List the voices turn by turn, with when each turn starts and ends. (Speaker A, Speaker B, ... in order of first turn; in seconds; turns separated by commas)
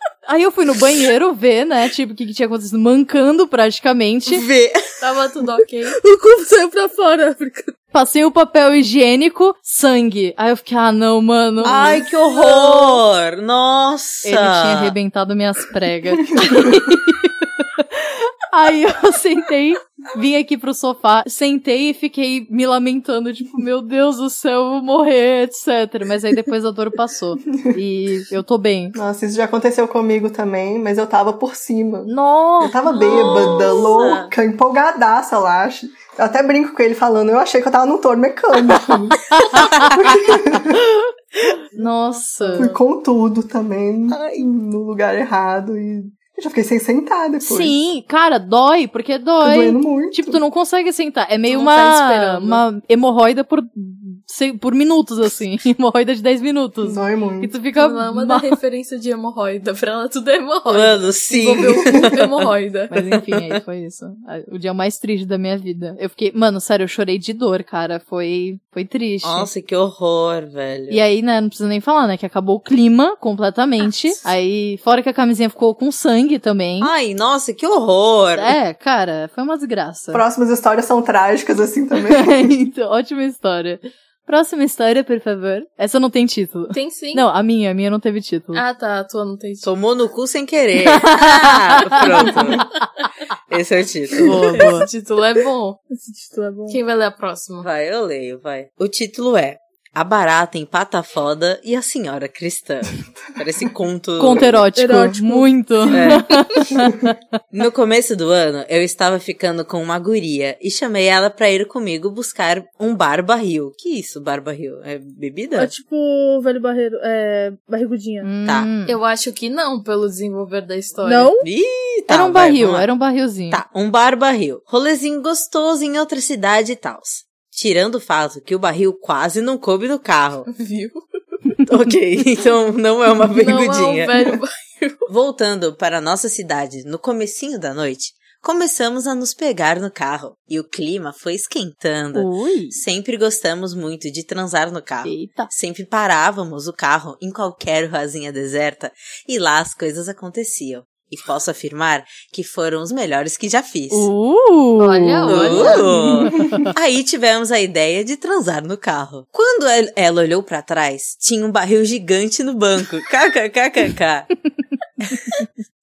Speaker A: 0.3-4.5, Speaker B: 4.3-4.8, Speaker C: 5.0-6.0, Speaker D: 5.9-7.7, Speaker A: 7.9-11.9, Speaker C: 11.6-13.0, Speaker B: 11.6-14.9, Speaker D: 11.8-12.0, Speaker A: 14.2-29.0, Speaker E: 16.4-16.9, Speaker E: 28.9-39.2, Speaker A: 32.1-32.8, Speaker B: 33.0-34.3, Speaker A: 39.4-39.7, Speaker B: 39.5-40.4, Speaker E: 39.8-40.8, Speaker A: 41.7-42.7, Speaker E: 42.6-47.8, Speaker B: 44.1-44.5, Speaker A: 47.4-58.5, Speaker E: 49.4-50.4, Speaker C: 51.5-52.6, Speaker E: 56.8-57.5, Speaker C: 57.8-62.9, Speaker B: 60.7-62.5, Speaker A: 62.9-69.5, Speaker B: 63.1-63.5, Speaker B: 69.2-71.0, Speaker A: 70.9-76.9, Speaker B: 76.8-78.6, Speaker A: 78.4-80.2, Speaker E: 80.1-82.5, Speaker A: 82.1-88.6, Speaker C: 86.7-87.3, Speaker C: 88.5-89.7, Speaker B: 89.6-92.7, Speaker A: 90.8-92.6, Speaker C: 92.0-92.6, Speaker B: 93.5-94.4, Speaker C: 94.2-95.8, Speaker A: 94.2-94.9, Speaker D: 95.9-96.8, Speaker C: 96.7-97.7, Speaker B: 97.6-104.6, Speaker A: 104.2-107.2, Speaker D: 104.8-105.5, Speaker B: 105.9-106.7, Speaker B: 107.5-115.7, Speaker D: 115.6-118.3, Speaker A: 118.2-119.0, Speaker C: 118.9-121.3, Speaker D: 121.0-121.5, Speaker B: 121.4-122.9, Speaker A: 122.1-123.6, Speaker B: 123.5-130.5, Speaker C: 130.5-131.0, Speaker B: 131.7-134.1, Speaker C: 133.3-135.1, Speaker B: 135.1-154.1, Speaker A: 142.1-142.8, Speaker A: 145.1-145.5, Speaker A: 153.9-155.7, Speaker C: 154.8-155.9, Speaker B: 155.3-164.3, Speaker E: 155.7-156.6, Speaker A: 156.2-156.7, Speaker B: 165.1-165.4